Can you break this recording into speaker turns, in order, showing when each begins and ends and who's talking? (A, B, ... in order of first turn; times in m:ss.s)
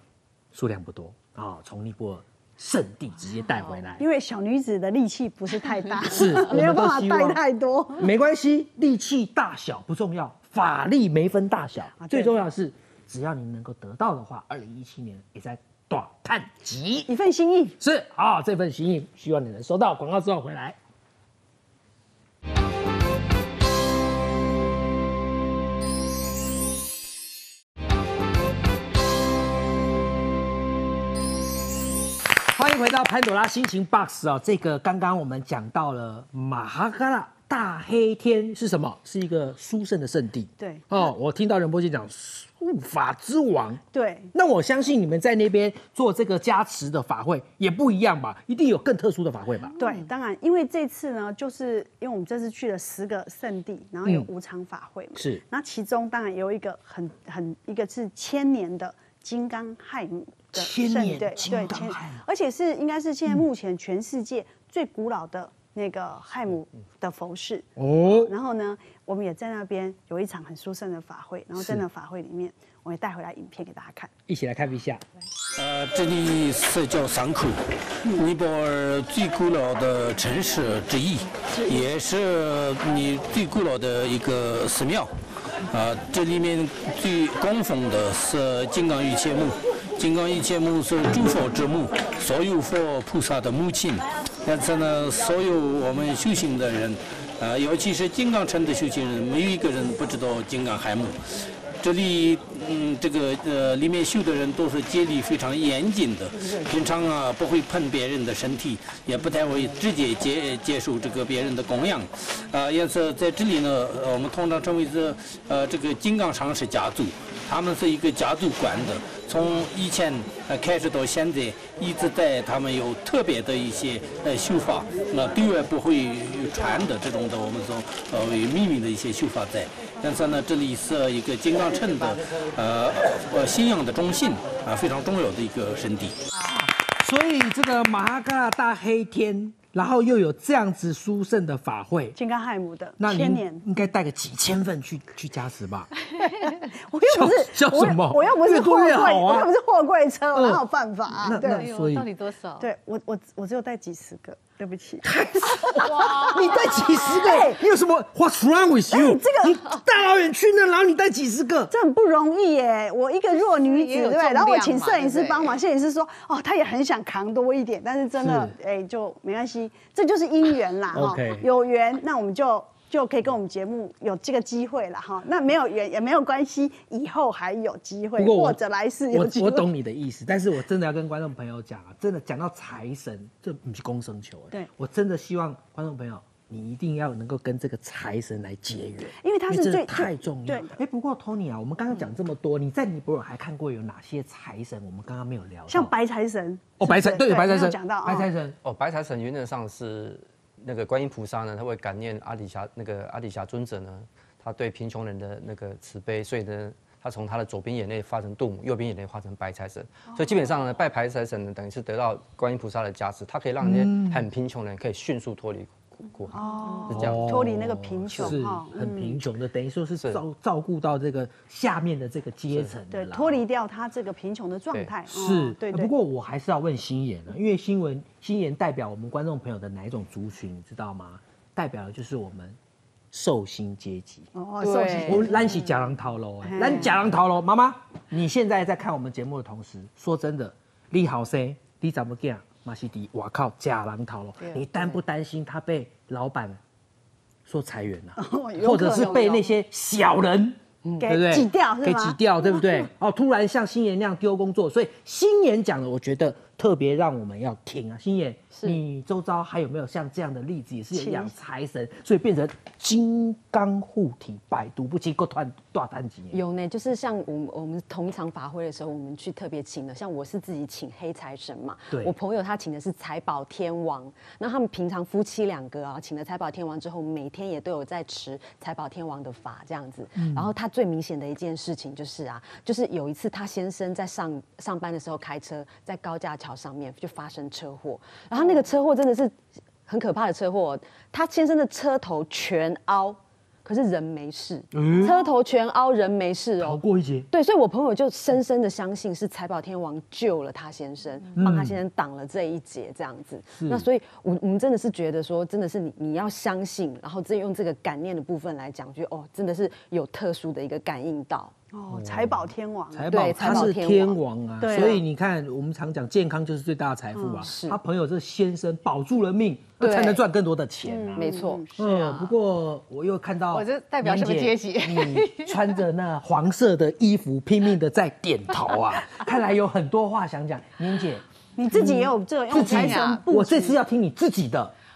0:00.5-0:04.0 A
0:04.0-0:08.1 B
0:06.1-0:07.4 A
0:08.0-0:17.1 A
0:12.0-0:12.3 B
0:17.1-0:17.8 B
0:17.8-0:20.8 A
0:32.4-0:43.8 A
0:40.6-0:40.9 B
0:43.9-0:44.3 B
0:44.3-0:49.7 A
0:49.6-0:50.1 C
0:49.8-1:07.7 B
0:55.1-0:55.4 A
1:00.5-1:02.2 A
1:07.8-1:08.3 A
1:08.2-1:14.1 B
1:11.6-1:11.8 A
1:14.3-1:15.0 A
1:15.5-1:25.1 D
1:25.7-1:41.2 D
1:41.8-2:16.2 D
2:16.3-2:22.2 A
2:22.2-2:23.6 B
2:23.0-2:25.9 A
2:26.1-2:26.5 C
2:26.2-2:31.6 B
2:27.0-2:29.5 A
2:30.3-2:30.6 A
2:31.1-2:32.1 A
2:31.3-2:32.7 C
2:32.6-2:37.6 B
2:35.0-2:41.7 A
2:35.8-2:37.3 C
2:38.9-2:39.8 B
2:41.7-2:59.7 B
2:43.3-2:45.6 C
2:48.2-2:48.5 A
2:50.9-2:51.4 A
2:58.2-2:58.6 A
2:59.1-3:15.9 A
3:09.2-3:10.8 B
3:15.7-3:18.3 B
3:16.8-3:18.6 A
3:18.6-3:37.5 E
3:33.6-3:34.2 A
3:36.3-3:39.2 B
3:36.9-3:43.4 A
3:42.9-3:45.9 B
3:45.1-3:52.6 A
3:53.1-3:54.3 A
3:54.3-3:55.5 B
3:54.6-3:55.0 F
3:55.0-4:06.6 A
3:56.4-3:56.9 B
4:07.4-4:26.4 A
4:08.2-4:09.4 B
4:11.0-4:12.8 B
4:18.5-4:18.8 F
4:20.9-4:21.3 B
4:26.3-4:49.3 F
4:40.2-4:40.5 A
4:49.9-5:11.5 F
4:54.7-4:55.2 A
4:56.6-4:57.3 A
5:01.4-5:01.8 A
5:03.5-5:03.9 A
5:11.7-5:13.7 B
5:11.9-5:34.7 A
5:13.1-5:14.2 F
5:14.6-5:15.0 B
5:17.2-5:17.5 B
5:17.4-5:17.8 F
5:19.8-5:20.2 F
5:20.8-5:21.7 B
5:21.2-5:21.6 F
5:21.6-5:22.3 C
5:23.5-5:25.7 C
5:31.6-5:33.8 B
5:32.5-5:33.2 C